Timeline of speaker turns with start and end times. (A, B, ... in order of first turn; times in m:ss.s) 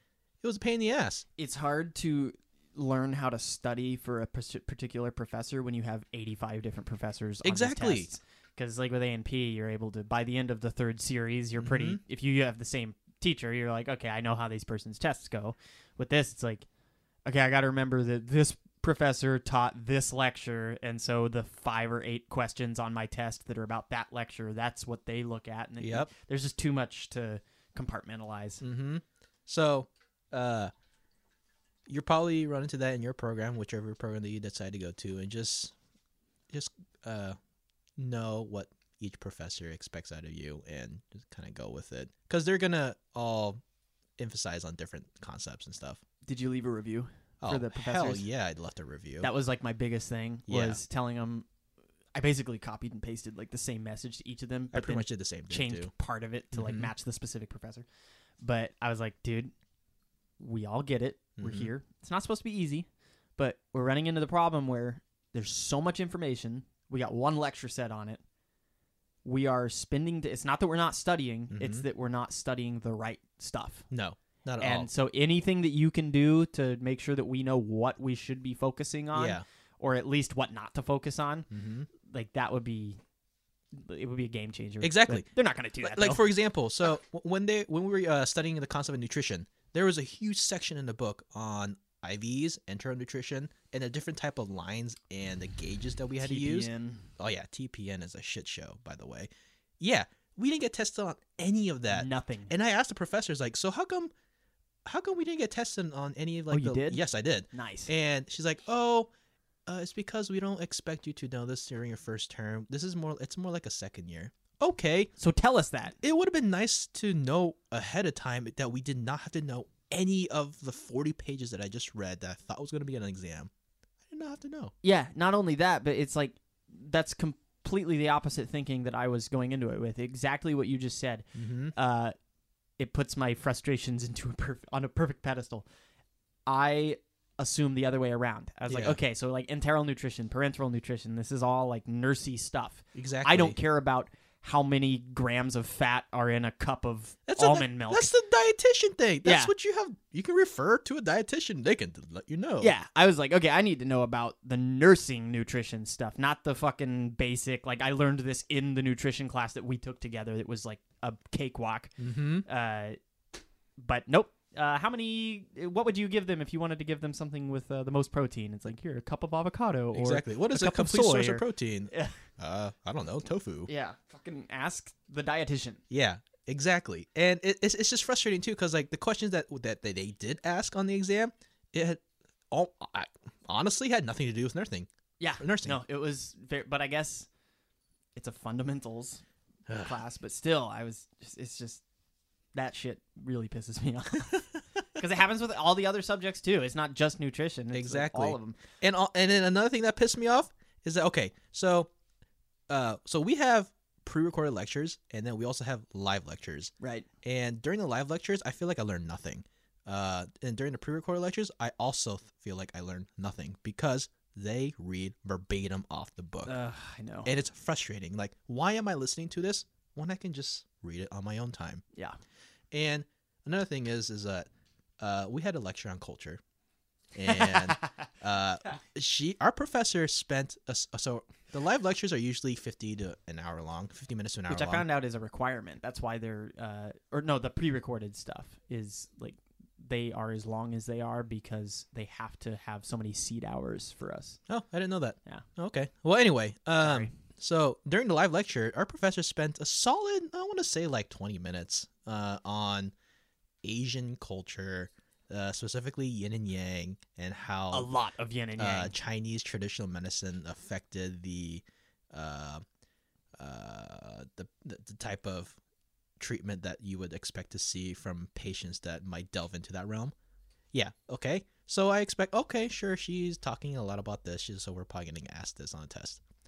0:00.4-0:01.2 A
0:01.4-0:16.7 B
0:07.4-0:08.1 A
0:11.6-0:12.0 A
0:17.3-0:28.6 B
0:25.8-0:26.1 A
0:28.6-0:30.7 A
0:31.9-0:35.7 A
0:36.5-0:37.4 A
0:38.0-0:43.6 A
0:44.2-0:46.0 A
0:46.3-0:48.2 B
0:47.4-0:49.3 A
0:49.2-0:51.5 B
0:50.5-0:50.8 A
0:52.2-0:57.9 B
0:54.7-0:55.9 A
0:56.5-0:56.9 A
0:58.4-0:59.5 B
1:00.4-1:08.2 B
1:01.4-1:01.7 A
1:09.2-1:13.9 B
1:11.5-1:11.9 A
1:13.9-1:14.9 A
1:14.6-1:21.5 B
1:19.1-1:19.4 A
1:21.5-1:21.9 A
1:22.0-1:23.0 B
1:23.7-1:26.2 B
1:24.8-1:25.3 A
1:25.8-1:39.3 A
1:36.2-1:37.1 B
1:39.8-1:44.1 A
1:41.9-1:42.5 B
1:44.9-1:49.1 A
1:46.5-1:47.0 B
1:47.5-1:47.9 B
1:49.7-1:55.1 A
1:55.2-1:56.0 B
1:56.0-2:03.5 A
2:04.1-2:04.7 A
2:04.8-2:12.2 B
2:11.4-2:11.7 A
2:12.8-2:15.7 B
2:16.5-2:28.1 B
2:18.7-2:19.0 A
2:23.0-2:23.6 A
2:27.3-2:32.7 A
2:29.2-2:29.5 B
2:32.6-2:41.9 B
2:42.0-2:42.5 A
2:42.5-2:43.0 B
2:43.8-2:52.2 B
2:49.9-2:53.7 A
2:53.7-2:55.8 B
2:55.9-3:04.9 A
3:05.2-3:07.3 B
3:05.4-3:05.8 A
3:08.2-3:09.2 B
3:09.7-3:10.0 A
3:09.8-3:11.8 B
3:12.6-3:18.6 B
3:17.7-3:21.9 A
3:22.7-3:26.7 A
3:26.8-3:27.1 B
3:27.2-3:36.5 A
3:36.5-3:37.3 B
3:37.2-3:41.8 A
3:42.7-3:44.5 A
3:45.0-3:46.4 A
3:47.2-3:54.8 A
3:47.3-3:47.9 B
3:54.5-4:04.4 B
4:04.5-4:12.9 A
4:06.8-4:07.1 B
4:13.6-4:17.9 A
4:17.7-4:18.9 B
4:18.6-4:22.6 A
4:23.4-4:25.6 A
4:26.2-4:30.1 A
4:30.7-4:36.2 A